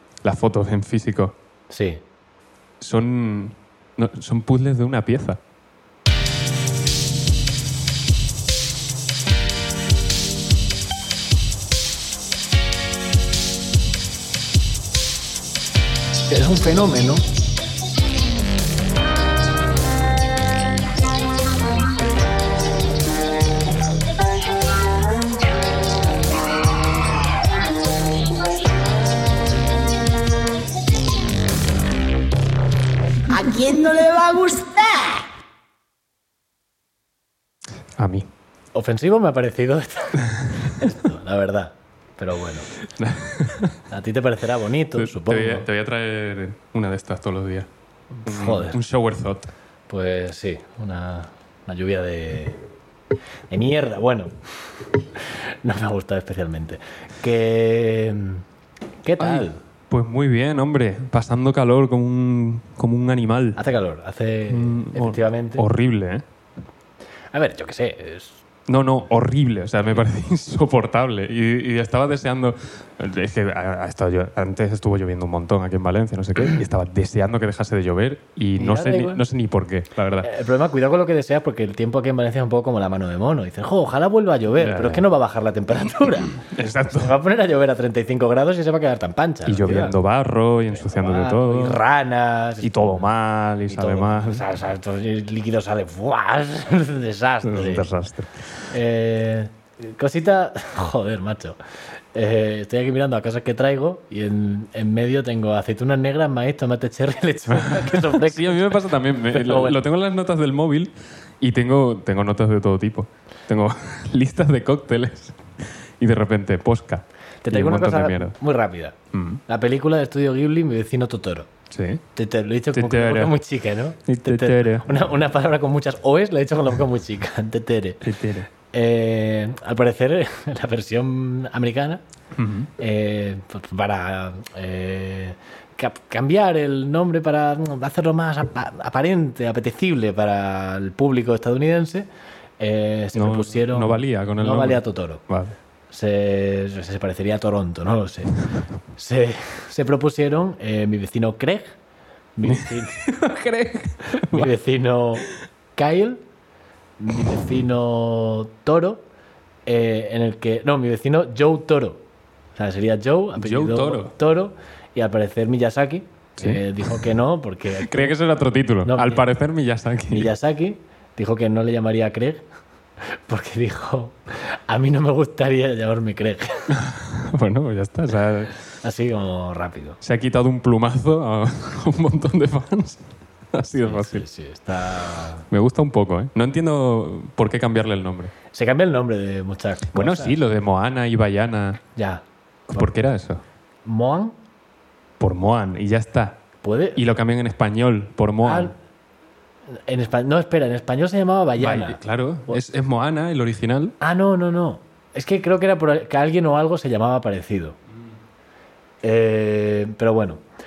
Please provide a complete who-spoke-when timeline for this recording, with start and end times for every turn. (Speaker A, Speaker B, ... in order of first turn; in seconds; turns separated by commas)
Speaker A: 0.2-1.4, Speaker B: 1.7-2.0, Speaker A: 2.8-5.4, Speaker B: 16.3-17.2, Speaker C: 33.3-35.2, Speaker A: 38.0-38.3, Speaker B: 38.7-42.7, Speaker A: 43.0-43.8, Speaker B: 43.9-45.7, Speaker A: 45.0-47.7, Speaker B: 48.2-48.8, Speaker A: 48.3-49.5, Speaker B: 49.9-52.6, Speaker B: 53.5-54.3, Speaker B: 55.2-58.4, Speaker B: 59.0-59.6, Speaker A: 59.2-63.6, Speaker B: 63.6-65.7, Speaker A: 64.5-66.2, Speaker B: 67.3-68.4, Speaker A: 68.7-80.3, Speaker B: 78.6-79.2, Speaker B: 80.2-90.0, Speaker A: 84.6-85.1, Speaker A: 86.4-87.2, Speaker A: 89.5-91.8, Speaker B: 90.7-93.1, Speaker A: 92.6-94.5, Speaker B: 93.7-97.9, Speaker A: 97.4-98.3, Speaker B: 98.7-101.6, Speaker B: 102.1-109.8, Speaker A: 107.5-118.3, Speaker B: 117.4-119.0, Speaker A: 119.1-119.4, Speaker B: 119.5-121.5, Speaker A: 121.7-122.0, Speaker B: 122.2-128.0, Speaker A: 122.7-123.3, Speaker A: 124.1-124.9, Speaker A: 128.0-128.5, Speaker B: 128.7-132.0, Speaker A: 132.3-132.7, Speaker B: 132.8-142.1, Speaker B: 142.6-145.2, Speaker A: 143.1-145.6, Speaker B: 145.9-148.4, Speaker B: 149.0-151.8, Speaker B: 152.4-153.1, Speaker A: 152.4-154.5, Speaker B: 154.3-156.2, Speaker B: 157.0-159.0, Speaker B: 159.7-162.0, Speaker B: 162.6-168.2, Speaker A: 163.4-164.1, Speaker A: 166.4-167.0, Speaker A: 167.7-170.3, Speaker B: 168.8-169.2, Speaker B: 170.1-172.4, Speaker B: 173.3-176.8, Speaker A: 176.7-178.6, Speaker B: 178.8-180.0, Speaker A: 180.0-184.2, Speaker B: 183.8-185.5, Speaker A: 185.5-188.3, Speaker B: 188.5-190.4, Speaker A: 189.9-191.8, Speaker B: 192.0-192.9, Speaker A: 192.7-193.4, Speaker B: 193.8-194.3, Speaker A: 195.2-196.4, Speaker B: 196.6-197.0, Speaker A: 197.0-198.7, Speaker B: 198.4-198.8, Speaker B: 199.9-202.6, Speaker A: 201.6-204.0, Speaker B: 204.0-207.8, Speaker B: 209.0-210.4